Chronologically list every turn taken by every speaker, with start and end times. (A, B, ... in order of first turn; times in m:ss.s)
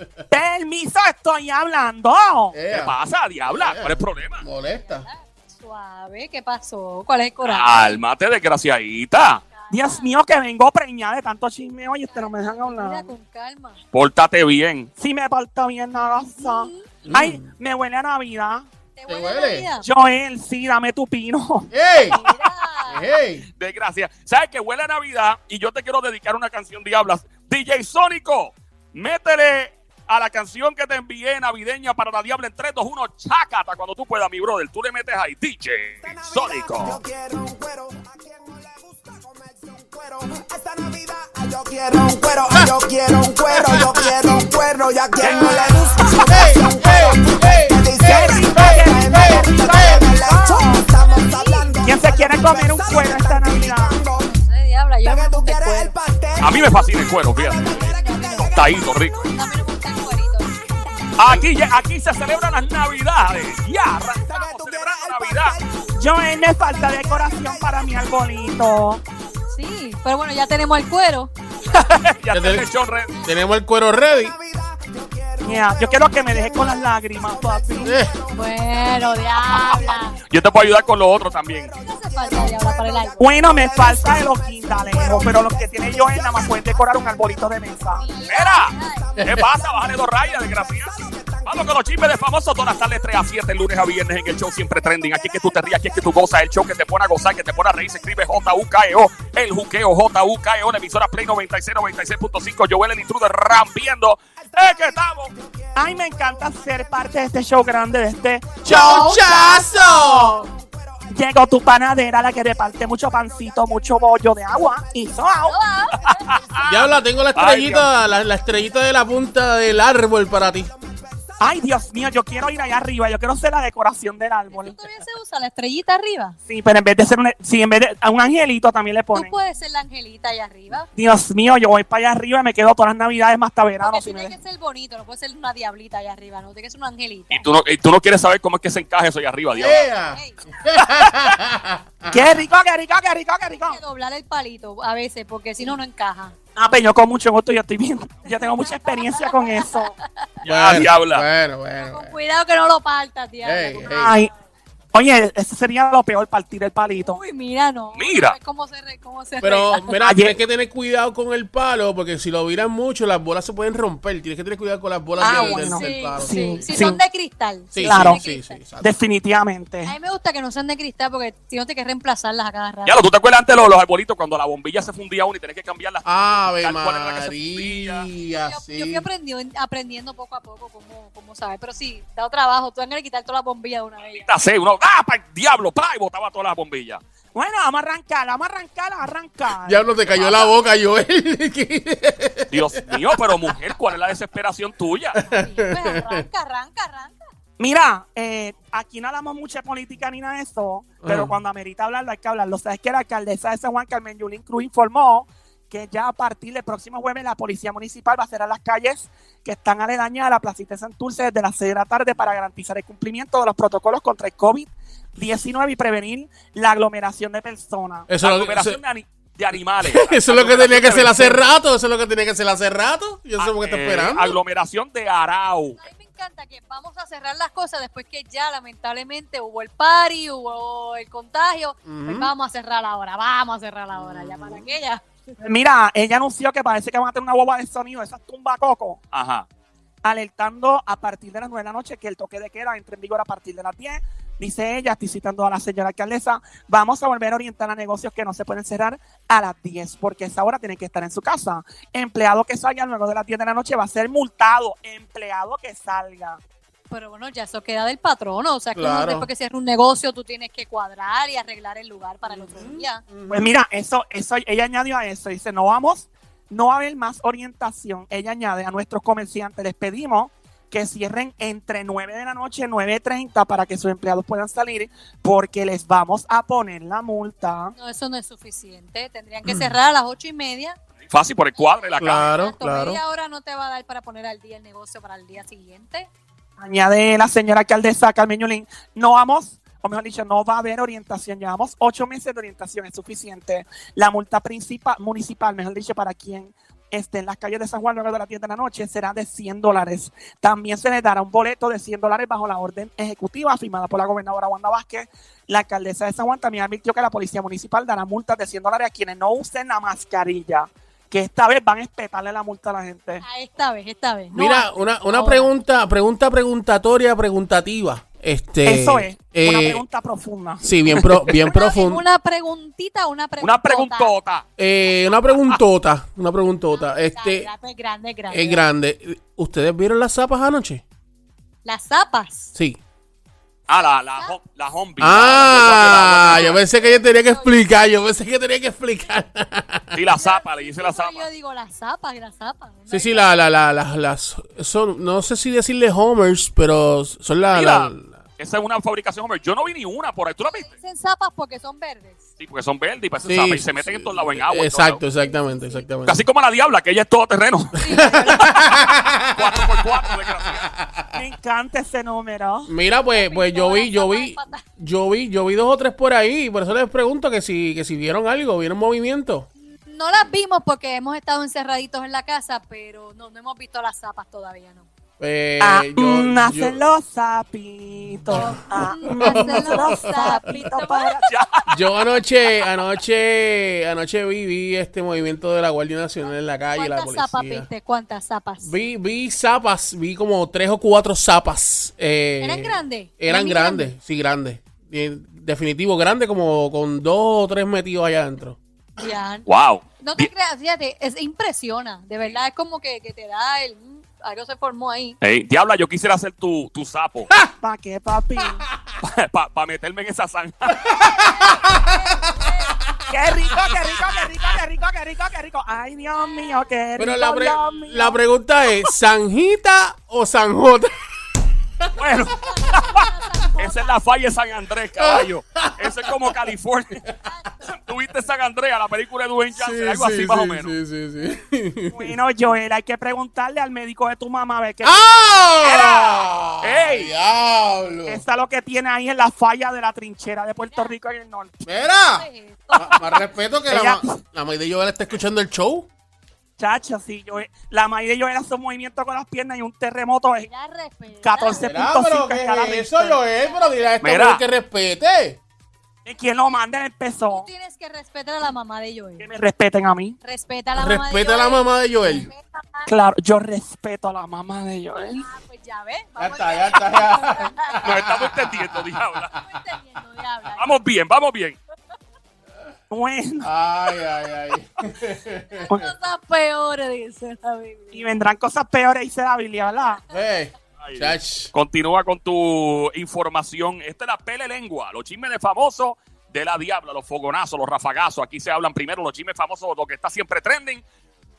0:00.3-0:02.6 A
0:02.5-0:02.9 B
0:02.7-0:04.4 C
0:03.5-0:05.1 B
0:04.6-0:08.0 D
0:07.4-0:09.4 C
0:09.5-0:10.1 D
0:09.7-0:13.1 A
0:12.0-0:13.8 D
0:13.9-0:14.9 C
0:15.0-0:18.7 A
0:16.0-0:16.9 D
0:17.0-0:17.5 B
0:19.0-0:19.9 D
0:19.1-0:19.7 B
0:19.8-0:21.7 A
0:21.7-0:22.2 B
0:22.1-0:23.2 D
0:22.9-0:23.5 B
0:23.6-0:37.0 C
0:36.0-0:54.3 E
0:43.5-0:44.1 B
0:45.2-0:46.2 C
0:45.4-0:45.7 A
0:46.3-0:50.0 B
0:48.0-0:50.8 A
0:51.0-0:51.8 D
0:51.8-0:54.0 A
0:54.2-0:56.0 D
0:55.0-0:59.6 E
0:56.4-0:57.7 C
0:57.6-0:58.6 D
0:58.5-0:59.2 C
0:59.2-1:01.2 D
1:01.2-1:05.6 C
1:04.1-1:08.7 E
1:06.0-1:09.0 A
1:09.5-1:11.3 D
1:12.0-1:13.1 C
1:12.3-1:12.7 B
1:13.2-1:14.4 B
1:14.1-1:31.9 E
1:15.4-1:18.0 A
1:17.8-1:18.1 B
1:18.3-1:20.2 D
1:20.3-1:21.7 C
1:21.8-1:23.2 D
1:23.2-1:28.0 A
1:28.0-1:29.2 D
1:28.3-1:28.7 C
1:29.2-1:30.9 C
1:31.5-1:45.3 C
1:34.3-1:38.8 E
1:44.4-1:57.0 E
1:45.8-1:49.4 A
1:48.6-1:50.4 B
1:50.0-1:50.4 A
1:51.1-1:55.6 A
1:55.5-1:56.3 D
1:56.7-2:00.7 B
1:57.4-1:57.9 C
1:57.7-2:02.9 E
2:01.4-2:04.8 A
2:04.5-2:06.4 D
2:06.5-2:09.3 A
2:09.1-2:10.9 D
2:11.0-2:14.3 A
2:13.8-2:17.4 D
2:17.3-2:19.8 C
2:19.6-2:22.3 B
2:19.6-2:20.4 D
2:20.8-2:21.2 A
2:22.1-2:23.8 A
2:23.6-2:26.4 D
2:26.6-2:30.0 A
2:28.6-2:29.2 D
2:30.4-2:31.2 C
2:30.4-2:32.2 B
2:31.8-2:34.0 D
2:33.4-2:34.2 B
2:33.9-2:34.3 A
2:34.9-2:37.2 A
2:37.0-2:39.9 D
2:38.0-2:38.4 C
2:39.4-2:46.8 B
2:40.0-2:40.4 A
2:45.2-2:47.0 A
2:45.2-2:48.6 D
2:47.7-2:48.9 B
2:47.8-2:48.2 A
2:48.8-2:50.0 A
2:49.8-2:53.0 D
2:52.9-2:58.1 C
2:56.1-2:59.0 B
2:58.5-3:04.3 D
3:04.0-3:07.0 C
3:07.3-3:10.5 A
3:09.6-3:13.6 B
3:12.5-3:15.2 C
3:15.2-3:16.2 B
3:15.2-3:17.2 D
3:17.6-3:38.1 A
3:21.0-3:21.4 B
3:38.1-3:38.8 B
3:38.2-3:41.5 C
3:39.8-3:44.4 B
3:43.4-3:45.8 C
3:45.8-3:55.1 D
3:51.9-3:52.3 B
3:53.9-3:54.7 B
3:55.4-3:59.0 A
3:59.1-3:59.5 C
4:00.0-4:16.4 A
4:16.9-4:23.0 D
4:18.8-4:19.3 B
4:22.2-4:23.5 B
4:23.3-4:37.7 A
4:37.8-4:40.8 D
4:39.5-4:39.7 B
4:41.1-4:42.3 C
4:42.0-4:43.0 B
4:42.1-4:46.1 D
4:46.6-5:13.2 A
5:13.2-5:15.5 D
5:14.3-5:19.8 B
5:18.6-5:21.1 A
5:20.6-5:22.0 B
5:21.3-5:24.1 D
5:23.4-5:24.5 C
5:24.6-5:27.5 B
5:26.7-5:28.6 D
5:28.3-5:30.8 B
5:31.6-5:32.5 D
5:33.7-5:36.6 C
5:35.0-5:40.0 B
5:36.2-5:37.7 D
5:39.9-5:41.3 C
5:40.1-5:43.4 D
5:42.9-5:48.2 B
5:47.5-5:50.7 C
5:50.4-5:52.3 D
5:52.4-5:55.0 C
5:53.2-5:56.2 B
5:55.1-5:55.9 D
5:56.1-5:57.8 C
5:57.7-5:58.6 D
5:57.9-6:01.2 B
5:59.3-6:00.7 C
6:01.1-6:02.7 A
6:02.7-6:09.5 B
6:03.1-6:04.7 D
6:09.7-6:14.9 D
6:15.2-6:16.8 B
6:15.6-6:21.3 A
6:18.3-6:20.4 B
6:18.3-6:21.2 D
6:21.3-6:21.7 C
6:21.7-6:27.7 B
6:26.7-6:28.7 D
6:28.6-6:38.6 B
6:32.4-6:33.9 D
6:39.0-6:39.5 D
6:39.5-6:40.3 C
6:40.0-6:45.2 D
6:45.2-6:47.3 C
6:47.6-6:48.6 A
6:49.0-6:50.8 C
6:50.8-6:52.0 B
6:50.9-6:52.8 D
6:53.1-6:58.2 A
6:56.2-6:56.7 D
6:57.0-7:00.9 B
7:02.0-7:03.0 C
7:02.4-7:04.0 D
7:03.6-7:07.0 C
7:05.0-7:06.4 B
7:07.2-7:07.6 D
7:07.7-7:10.8 C
7:09.6-7:12.1 B
7:11.9-7:16.0 A
7:14.8-7:18.2 B
7:16.6-7:17.1 C
7:18.1-7:21.6 A
7:21.6-7:25.9 B
7:22.1-7:22.8 D
7:23.7-7:24.2 A
7:26.6-7:30.5 A
7:30.5-7:31.7 D
7:31.2-7:33.2 A
7:31.6-7:35.4 B
7:33.4-7:33.9 D
7:34.0-7:34.4 C
7:36.1-7:37.5 A
7:37.3-7:39.3 D
7:39.2-7:40.2 A
7:40.2-7:42.9 D
7:40.8-7:42.3 B
7:42.9-7:45.3 A
7:45.2-7:47.8 D
7:46.2-7:49.0 B
7:47.8-7:49.3 C
7:49.3-7:50.8 D
7:50.6-7:51.6 C
7:52.9-7:53.5 A
7:53.4-7:55.7 B
7:55.5-7:58.1 D
7:57.9-8:00.0 A
8:00.1-8:01.5 B
8:00.8-8:10.8 C